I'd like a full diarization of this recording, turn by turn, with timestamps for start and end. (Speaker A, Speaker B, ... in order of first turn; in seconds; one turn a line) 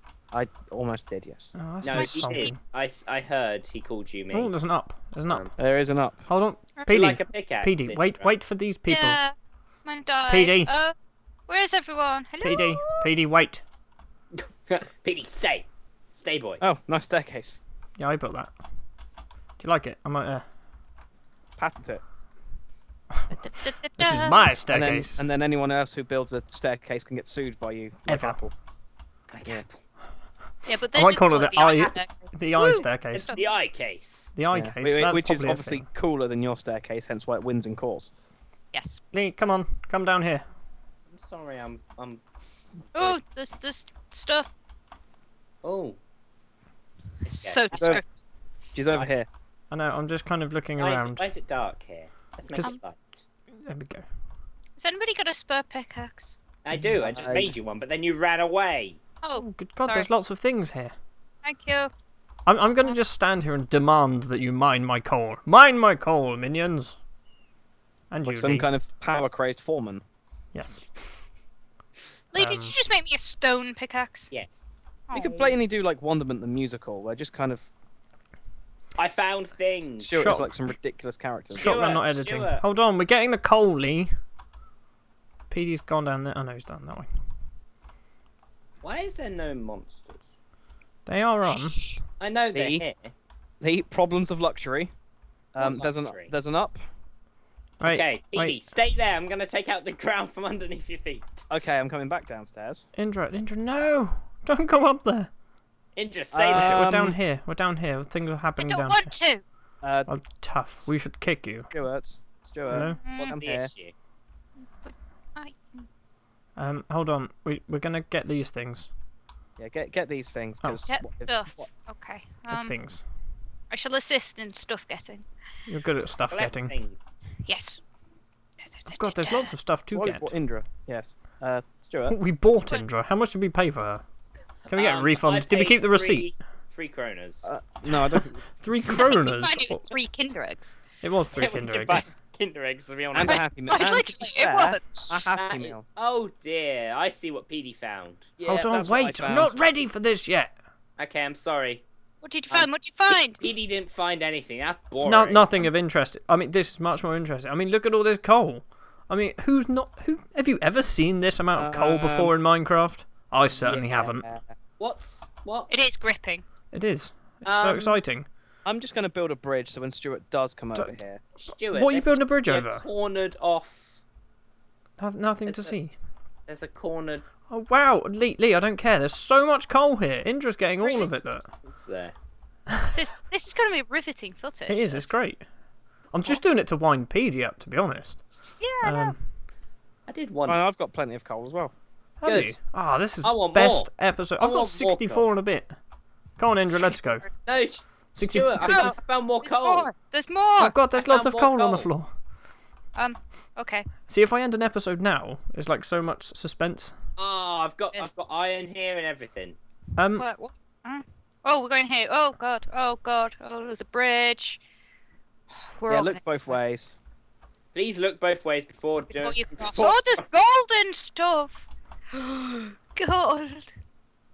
Speaker A: 0.3-1.5
Speaker B: 1.6-2.6
Speaker C: 1.8-4.5
Speaker D: 2.0-2.5
Speaker B: 4.3-5.5
Speaker A: 5.6-6.2
Speaker B: 6.3-9.2
Speaker C: 6.9-8.3
Speaker D: 8.9-9.3
Speaker D: 9.8-10.9
Speaker B: 10.3-10.7
Speaker D: 11.5-12.8
Speaker B: 12.4-13.6
Speaker C: 14.3-16.6
Speaker A: 16.6-17.6
Speaker B: 18.0-18.5
Speaker B: 19.6-20.4
Speaker A: 21.6-22.0
Speaker D: 23.3-24.5
Speaker B: 24.0-25.2
Speaker A: 24.7-28.5
Speaker B: 28.1-28.4
Speaker C: 29.3-29.8
Speaker D: 30.7-33.5
Speaker B: 30.9-33.4
Speaker C: 33.1-34.3
Speaker B: 34.4-35.9
Speaker A: 34.5-38.1
Speaker D: 38.7-39.0
Speaker B: 39.1-40.5
Speaker C: 41.1-42.2
Speaker C: 42.9-43.2
Speaker D: 43.0-44.5
Speaker C: 45.6-46.0
Speaker D: 47.2-48.0
Speaker C: 47.2-47.7
Speaker A: 47.7-48.0
Speaker A: 48.8-49.3
Speaker B: 49.7-51.2
Speaker C: 50.8-53.0
Speaker B: 52.5-52.8
Speaker B: 53.6-54.0
Speaker D: 54.8-56.4
Speaker C: 56.6-59.0
Speaker A: 57.0-57.5
Speaker D: 59.2-60.1
Speaker B: 59.4-60.9
Speaker D: 61.4-61.9
Speaker B: 62.5-67.0
Speaker B: 68.1-68.7
Speaker A: 68.2-70.0
Speaker B: 70.5-70.9
Speaker D: 72.3-74.3
Speaker B: 72.3-72.7
Speaker C: 74.3-74.7
Speaker D: 75.1-75.5
Speaker A: 75.1-77.7
Speaker C: 79.0-80.4
Speaker A: 79.8-81.8
Speaker B: 80.2-80.7
Speaker C: 81.5-82.6
Speaker B: 81.5-84.1
Speaker B: 85.5-87.1
Speaker C: 88.8-90.2
Speaker B: 91.1-91.8
Speaker C: 92.2-93.1
Speaker A: 92.5-92.8
Speaker A: 93.6-94.9
Speaker A: 95.5-96.8
Speaker C: 95.6-96.3
Speaker B: 97.8-98.6
Speaker C: 97.8-101.4
Speaker A: 101.5-102.9
Speaker B: 103.0-105.3
Speaker C: 106.0-106.9
Speaker A: 106.3-107.2
Speaker B: 106.5-109.1
Speaker D: 108.6-109.4
Speaker A: 109.8-110.1
Speaker B: 110.1-111.7
Speaker A: 111.7-113.7
Speaker B: 112.7-113.0
Speaker D: 112.9-113.3
Speaker C: 113.2-113.9
Speaker D: 114.8-115.9
Speaker B: 116.6-118.9
Speaker A: 119.6-121.7
Speaker B: 120.6-120.9
Speaker D: 120.9-122.8
Speaker B: 122.5-123.0
Speaker D: 123.7-125.3
Speaker B: 125.7-126.7
Speaker C: 126.3-127.1
Speaker D: 127.5-127.8
Speaker D: 128.6-129.5
Speaker B: 128.9-130.3
Speaker A: 129.9-132.2
Speaker B: 132.1-134.0
Speaker C: 134.7-137.5
Speaker B: 134.7-136.3
Speaker A: 137.4-138.5
Speaker B: 138.6-139.9
Speaker D: 138.9-140.7
Speaker B: 141.0-142.0
Speaker C: 141.3-143.4
Speaker A: 143.1-145.8
Speaker D: 143.2-145.3
Speaker C: 145.3-148.2
Speaker A: 148.4-149.6
Speaker B: 148.5-150.5
Speaker C: 151.0-151.8
Speaker D: 152.2-153.4
Speaker C: 153.4-155.7
Speaker B: 155.0-164.2
Speaker A: 161.6-162.3
Speaker A: 163.6-164.4
Speaker C: 164.8-165.7
Speaker D: 165.7-166.4
Speaker B: 166.7-168.3
Speaker C: 167.4-168.0
Speaker A: 168.7-171.2
Speaker B: 170.7-171.0
Speaker C: 171.4-174.0
Speaker B: 171.7-172.9
Speaker B: 175.0-175.9
Speaker C: 175.4-175.8
Speaker C: 176.5-177.2
Speaker B: 177.5-181.5
Speaker C: 180.8-182.1
Speaker D: 182.9-185.2
Speaker B: 184.7-185.4
Speaker B: 186.1-188.2
Speaker D: 188.6-189.1
Speaker B: 188.8-189.2
Speaker C: 190.1-190.6
Speaker A: 190.5-191.7
Speaker B: 192.2-195.8
Speaker C: 192.2-192.6
Speaker C: 193.2-195.3
Speaker B: 196.4-197.3
Speaker C: 197.4-199.9
Speaker B: 198.2-198.9
Speaker D: 198.6-200.8
Speaker B: 200.6-202.1
Speaker C: 200.9-201.9
Speaker D: 202.9-203.9
Speaker B: 204.0-206.9
Speaker C: 207.2-209.6
Speaker B: 210.0-210.3
Speaker D: 210.2-214.6
Speaker D: 215.7-216.2
Speaker A: 215.9-217.0
Speaker C: 217.7-220.3
Speaker D: 219.1-221.6
Speaker D: 222.1-223.7